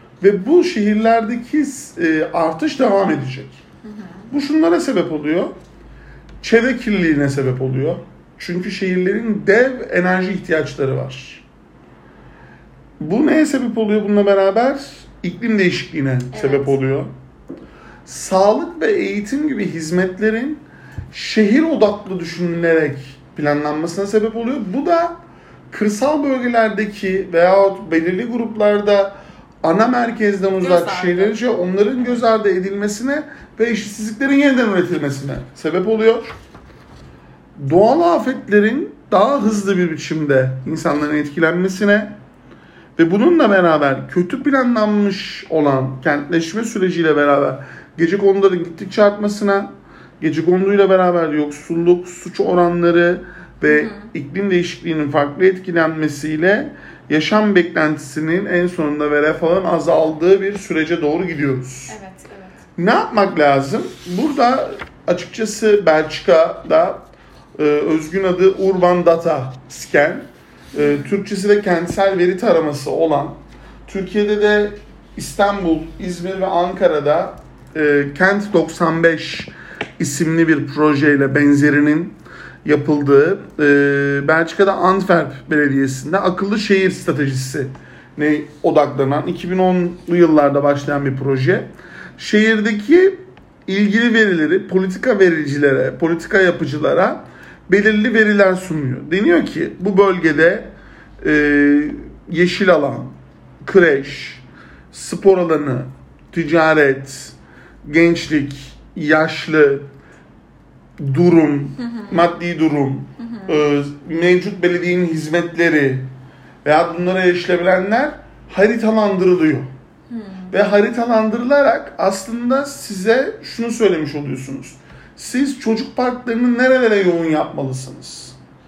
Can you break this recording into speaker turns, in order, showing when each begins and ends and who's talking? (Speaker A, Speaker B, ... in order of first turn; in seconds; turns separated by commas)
Speaker A: 0.2-3.6, Speaker B: 3.8-4.3, Speaker A: 4.3-5.5, Speaker A: 6.4-11.4, Speaker A: 13.0-17.1, Speaker B: 16.3-16.8, Speaker A: 18.0-25.2, Speaker A: 25.7-36.3, Speaker B: 30.6-31.4, Speaker A: 37.5-42.1, Speaker A: 43.0-62.0, Speaker B: 53.6-54.1, Speaker B: 61.9-62.6, Speaker A: 62.8-67.0, Speaker A: 67.6-109.9, Speaker B: 70.7-71.1, Speaker A: 111.0-116.1, Speaker B: 111.8-112.3, Speaker B: 113.2-113.6, Speaker A: 116.6-119.7, Speaker B: 120.1-120.5, Speaker A: 120.5-128.3